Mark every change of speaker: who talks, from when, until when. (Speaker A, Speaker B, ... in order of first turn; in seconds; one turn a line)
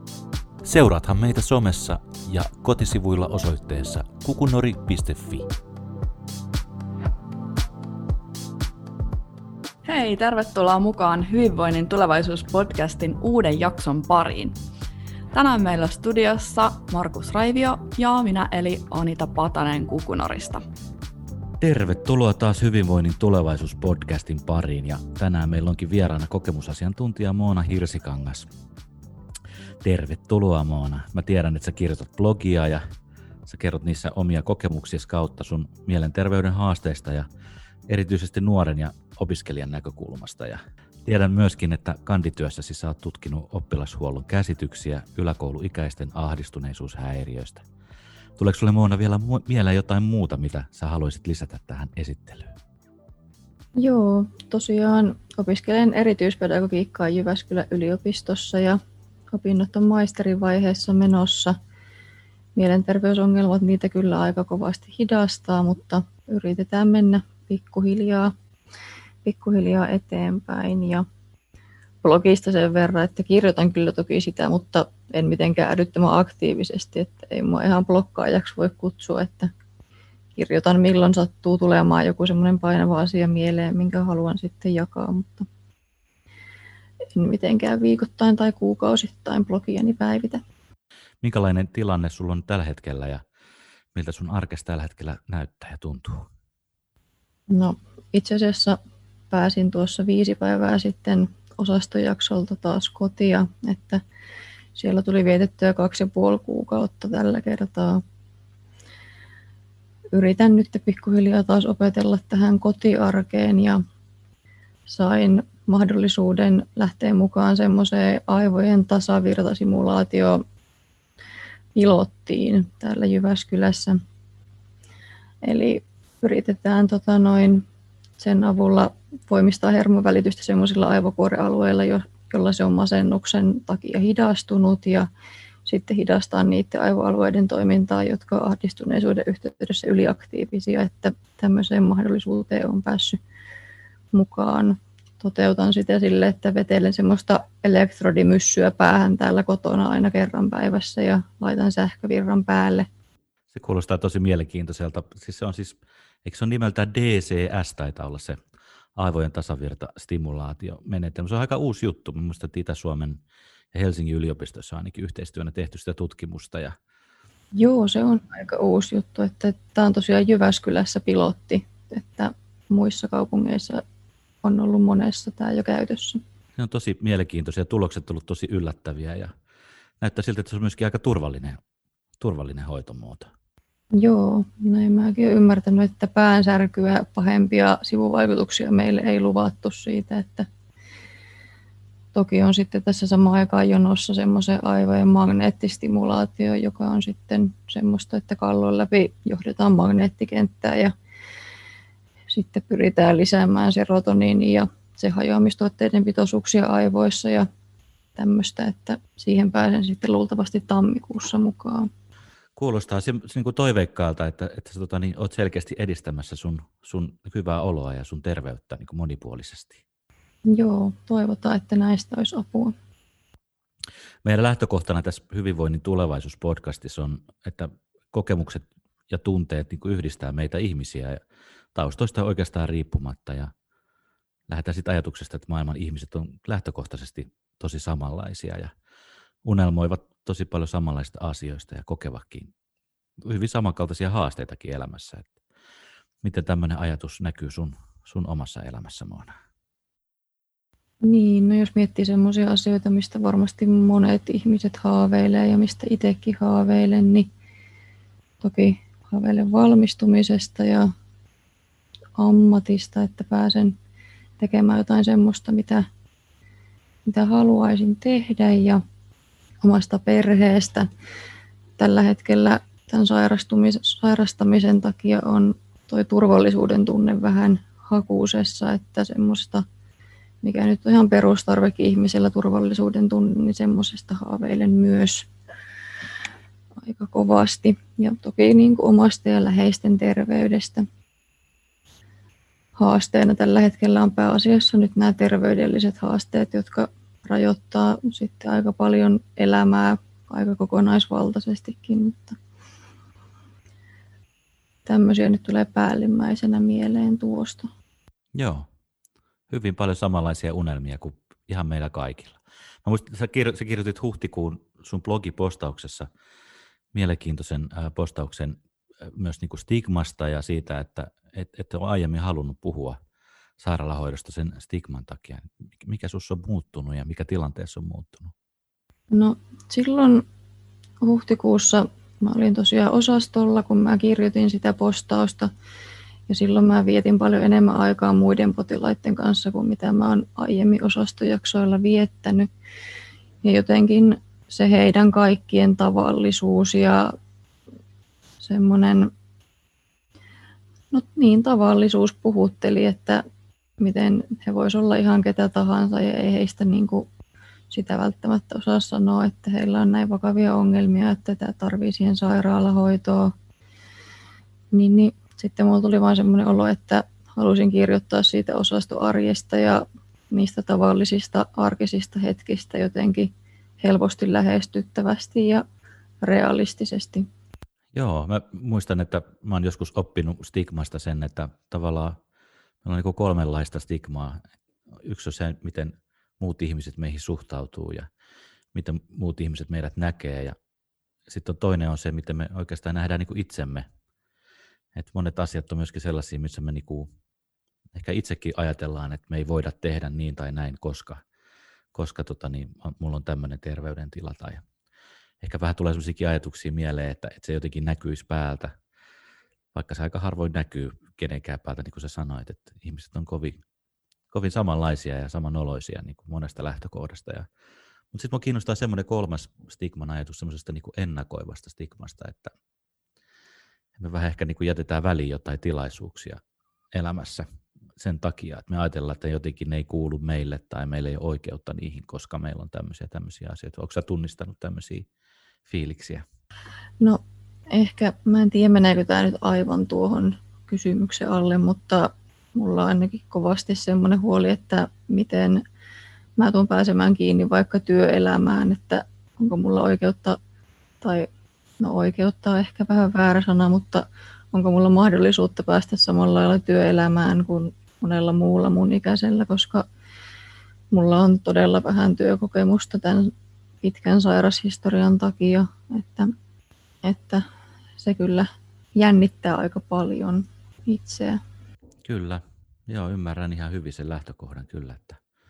Speaker A: 0.6-5.5
Speaker B: 9.8-14.6
Speaker B: 15.3-20.6
Speaker A: 21.6-28.5
Speaker A: 29.8-32.8
Speaker A: 33.5-37.3
Speaker A: 37.9-47.6
Speaker A: 48.4-52.5
Speaker C: 53.8-58.8
Speaker C: 59.3-61.5
Speaker C: 62.5-68.3
Speaker C: 69.2-71.0
Speaker C: 72.0-79.5
Speaker C: 80.4-85.5
Speaker C: 87.1-90.4
Speaker A: 91.2-93.2
Speaker A: 93.9-96.3
Speaker C: 97.5-98.8
Speaker C: 99.3-104.0
Speaker C: 104.8-108.0
Speaker C: 110.1-113.8
Speaker C: 114.9-120.4
Speaker C: 121.7-124.0
Speaker C: 125.4-127.6
Speaker C: 128.2-135.1
Speaker C: 135.7-143.2
Speaker C: 144.1-152.9
Speaker A: 153.5-158.4
Speaker A: 158.9-163.2
Speaker A: 163.7-166.7
Speaker C: 167.6-173.8
Speaker C: 174.4-176.2
Speaker A: 176.6-179.3
Speaker A: 180.0-181.6
Speaker A: 182.2-183.3
Speaker C: 183.9-190.5
Speaker C: 192.1-200.9
Speaker C: 202.3-207.5
Speaker C: 208.2-211.9
Speaker A: 212.6-219.8
Speaker C: 220.4-222.7
Speaker A: 224.2-231.2
Speaker A: 231.7-233.5
Speaker A: 234.5-238.7
Speaker A: 239.4-242.5
Speaker A: 243.2-245.3
Speaker A: 246.2-249.3
Speaker C: 251.0-257.3
Speaker C: 258.4-260.9
Speaker C: 262.2-263.8
Speaker C: 264.4-265.9
Speaker C: 267.1-268.8
Speaker C: 269.6-270.9
Speaker C: 271.8-279.6
Speaker C: 280.4-285.3
Speaker C: 286.8-290.9
Speaker C: 292.8-302.4
Speaker C: 304.9-307.7
Speaker A: 308.3-308.7
Speaker A: 309.5-316.1
Speaker A: 316.9-323.0
Speaker A: 323.6-328.3
Speaker C: 329.1-330.2
Speaker C: 331.0-335.5
Speaker C: 336.3-342.5
Speaker C: 343.4-347.1
Speaker C: 348.4-349.1
Speaker C: 350.9-353.2
Speaker C: 353.8-357.1
Speaker C: 357.7-363.3
Speaker C: 364.7-375.6
Speaker C: 376.2-377.3
Speaker A: 377.9-382.2
Speaker A: 382.8-384.4
Speaker A: 385.0-388.1
Speaker A: 388.7-390.5
Speaker A: 391.3-393.9
Speaker A: 394.9-397.1
Speaker A: 397.9-401.2
Speaker A: 401.9-404.6
Speaker A: 405.4-408.7
Speaker A: 409.7-413.6
Speaker A: 414.3-417.5
Speaker A: 418.1-422.5
Speaker A: 424.0-426.4
Speaker A: 426.9-427.4
Speaker A: 428.0-435.1
Speaker A: 435.7-436.2
Speaker C: 437.0-445.6
Speaker C: 446.4-450.4
Speaker C: 451.0-451.3
Speaker C: 451.8-459.8
Speaker C: 460.9-463.3
Speaker C: 463.8-466.3
Speaker C: 467.0-467.4
Speaker C: 468.0-471.4
Speaker A: 472.0-475.2